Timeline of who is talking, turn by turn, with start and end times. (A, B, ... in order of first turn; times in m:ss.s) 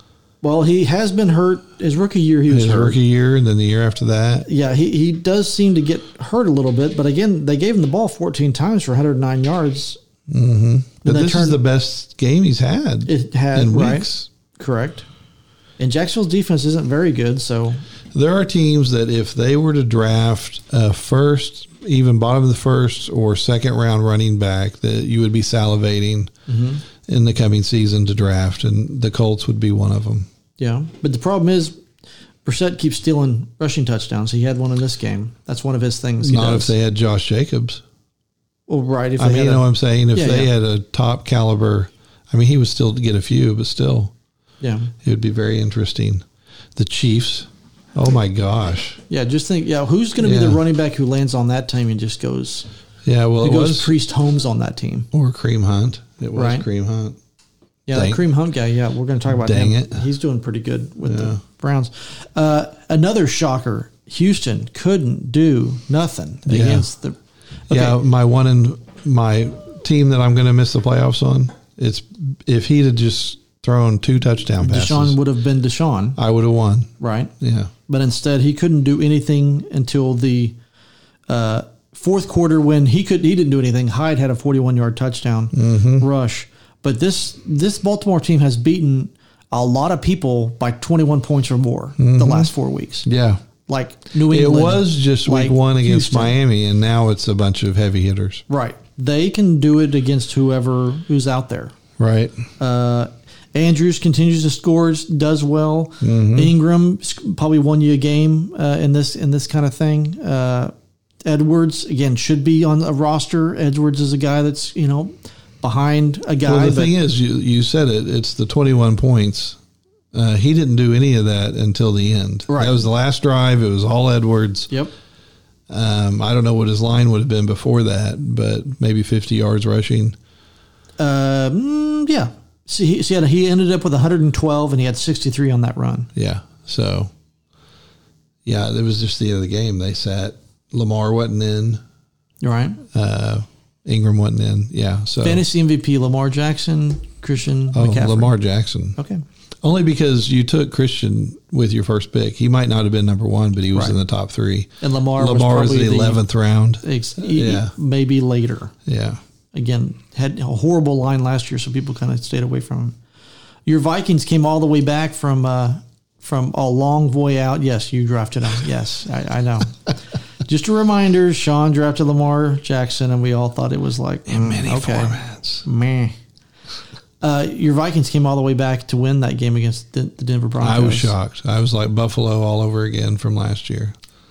0:00.4-0:03.0 A
0:02.5-0:04.5 B
0:04.4-0:10.0 A
0:10.3-0:14.3 B
0:11.0-0:11.6 A
0:13.1-0:15.1 A
0:15.8-0:17.8 A
0:18.1-0:26.3 B
0:26.5-0:26.8 A
0:27.0-0:30.3 B
0:30.6-0:31.8 A
0:32.4-0:36.7 A
0:36.2-0:37.8 B
0:38.7-0:40.5 A
0:39.2-0:44.1 B
0:44.6-0:44.9 A
0:45.0-0:46.2 B
0:46.8-0:49.0 B
0:49.1-0:52.7 A
0:50.2-0:50.6 B
0:53.0-0:53.9 B
0:53.4-0:55.1 A
0:55.1-0:57.2 B
0:56.4-0:56.6 A
0:57.9-1:07.2 A
0:57.9-0:58.2 B
0:59.3-1:00.0 B
1:01.0-1:01.4 B
1:06.5-1:06.9 B
1:07.7-1:08.0 A
1:07.7-1:15.2 B
1:14.6-1:16.2 A
1:16.2-1:17.7 B
1:17.0-1:17.3 A
1:17.9-1:20.6 A
1:21.3-1:33.1 A
1:25.5-1:26.1 B
1:32.0-1:32.5 B
1:33.0-1:33.4 B
1:33.7-1:36.3 A
1:34.2-1:38.4 B
1:38.5-1:41.7 A
1:42.0-1:42.4 B
1:42.6-1:50.7 A
1:46.0-1:46.5 B
1:51.2-1:56.9 A
1:56.4-1:59.6 B
2:00.1-2:04.7 B
2:02.5-2:02.8 A
2:05.7-2:10.2 B
2:11.0-2:16.1 A
2:16.1-2:17.1 B
2:18.4-2:21.8 B
2:22.4-2:22.8 A
2:22.9-2:25.4 B
2:25.2-2:28.3 A
2:27.7-2:29.0 B
2:29.0-2:29.2 A
2:29.6-2:37.7 B
2:34.8-2:36.2 A
2:36.8-2:38.7 A
2:38.8-2:39.2 B
2:39.5-2:43.0 A
2:43.6-2:56.1 A
2:54.3-2:55.6 B
2:57.2-3:01.1 A
3:00.6-3:04.0 B